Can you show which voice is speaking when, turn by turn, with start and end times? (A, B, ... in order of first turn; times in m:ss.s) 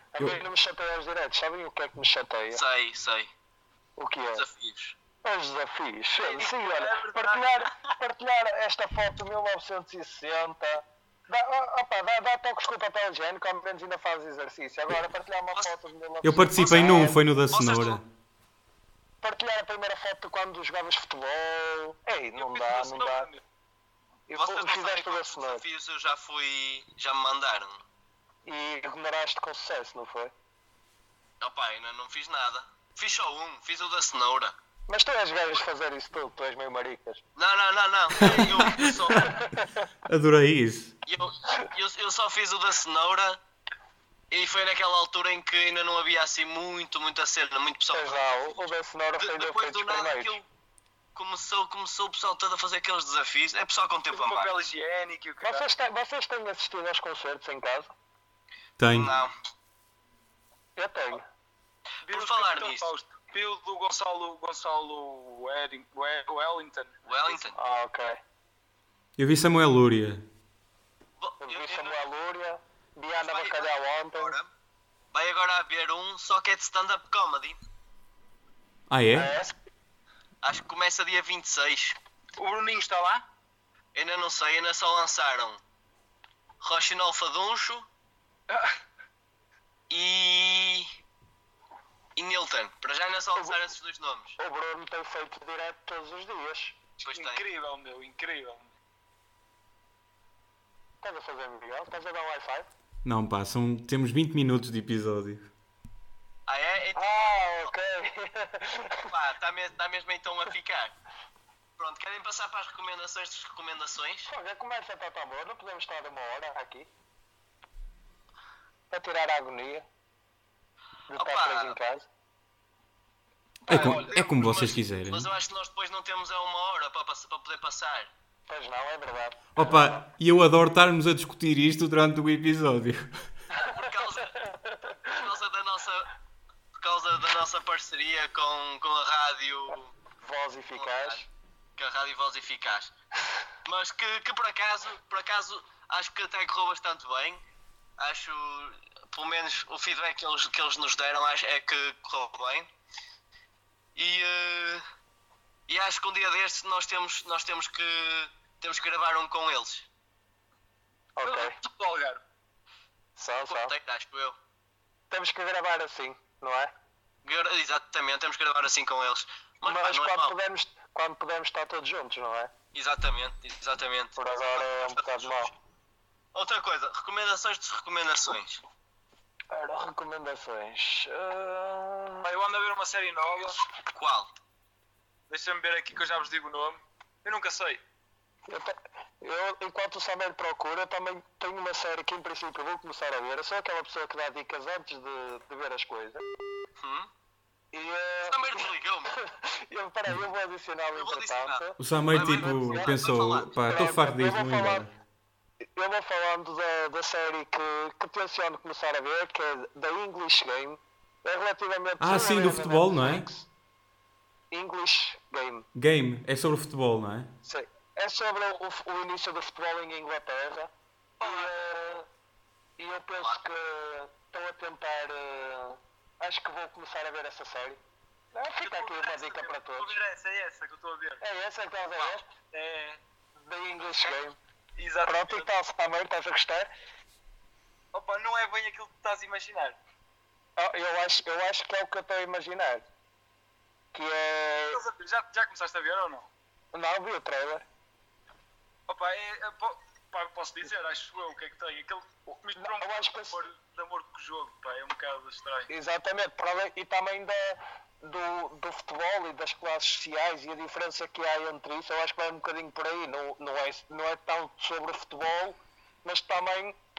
0:00.1-0:02.6 A
0:02.5-0:03.3 B
0:04.0-0:04.4 A
0:04.3-0:05.0 B
0:05.2-0:17.2 A
0:06.2-0:07.7 C
0:16.2-0:18.0 D
0:16.8-0:18.0 B
0:19.2-0:23.3 A
0:22.4-0:23.4 C
0:24.3-0:25.6 A
0:24.3-0:27.8 B
0:28.4-0:30.3 A
0:31.4-0:34.6 B
0:34.9-0:37.2 A
0:37.4-0:39.3 B
0:38.2-0:38.6 D
0:39.2-0:39.8 A
0:40.1-0:41.0 D
0:41.0-0:43.4 B
0:44.3-0:50.5 B
0:47.9-0:50.4 A
0:51.1-0:54.5 B
0:54.1-0:55.7 C
0:55.4-0:57.9 A
0:58.8-0:59.1 D
0:58.9-0:59.3 B
1:00.8-1:01.2 A
1:02.0-1:07.4 C
1:02.1-1:02.9 B
1:07.0-1:07.6 B
1:07.5-1:08.2 A
1:09.2-1:10.2 D
1:11.2-1:12.0 B
1:11.4-1:14.3 A
1:13.2-1:14.5 B
1:15.1-1:17.6 B
1:18.9-1:19.3 D
1:19.1-1:19.5 A
1:20.4-1:22.0 B
1:22.4-1:23.2 C
1:23.9-1:25.6 B
1:26.6-1:27.9 B
1:28.5-1:28.8 C
1:29.9-1:30.9 B
1:32.2-1:34.4 B
1:34.4-1:36.8 A
1:37.0-1:37.4 B
1:37.1-1:38.7 C
1:41.0-1:42.7 A
1:43.0-1:45.5 D
1:46.5-1:47.7 B
1:47.0-1:49.1 A
1:49.0-1:50.9 B
1:51.8-1:54.3 B
1:54.3-1:56.9 A
1:58.9-1:59.8 A
2:01.1-2:02.1 A
2:01.1-2:01.8 B
2:03.7-2:05.3 D
2:03.7-2:08.1 B
2:03.7-2:04.2 C
2:08.5-2:09.4 A
2:09.6-2:13.2 D
2:13.6-2:15.3 A
2:13.6-2:14.4 B
2:15.1-2:16.1 B
2:16.8-2:19.9 B
2:20.2-2:21.3 A
2:20.8-2:21.2 B
2:21.8-2:22.9 B
2:23.6-2:27.4 B
2:28.0-2:32.7 B
2:33.9-2:34.8 B
2:35.7-2:39.9 B
2:41.2-2:41.6 A
2:41.2-2:42.2 C
2:43.2-2:43.7 A
2:43.4-2:44.4 B
2:45.1-2:46.7 A
2:47.2-2:50.3 B
2:49.6-2:52.5 A
2:52.7-2:55.5 B
2:54.2-2:55.5 A
2:56.3-2:58.6 B
2:59.5-3:02.3 A
3:02.2-3:03.6 C
3:03.9-3:04.3 B
3:05.3-3:07.8 C
3:08.5-3:16.2 A
3:16.8-3:17.1 B
3:17.7-3:23.1 A
3:18.2-3:19.2 B
3:20.9-3:23.8 B
3:21.8-3:24.9 D
3:23.7-3:24.9 A
3:25.7-3:33.5 A
3:32.0-3:33.3 D
3:34.5-3:35.6 A
3:35.8-3:37.3 D
3:37.4-3:42.1 A
3:41.2-3:41.5 C
3:42.8-3:47.8 A
3:48.3-3:49.9 A
3:48.6-3:51.2 C
3:51.2-3:52.3 A
3:52.4-3:53.0 C
3:53.4-3:54.4 A
3:54.8-3:55.5 C
3:55.0-3:56.7 A
3:57.9-3:59.8 C
4:00.6-4:02.8 A
4:03.9-4:04.8 A
4:04.7-4:06.3 C
4:06.7-4:07.6 A
4:08.9-4:15.7 C
4:12.5-4:13.4 A
4:15.7-4:26.8 A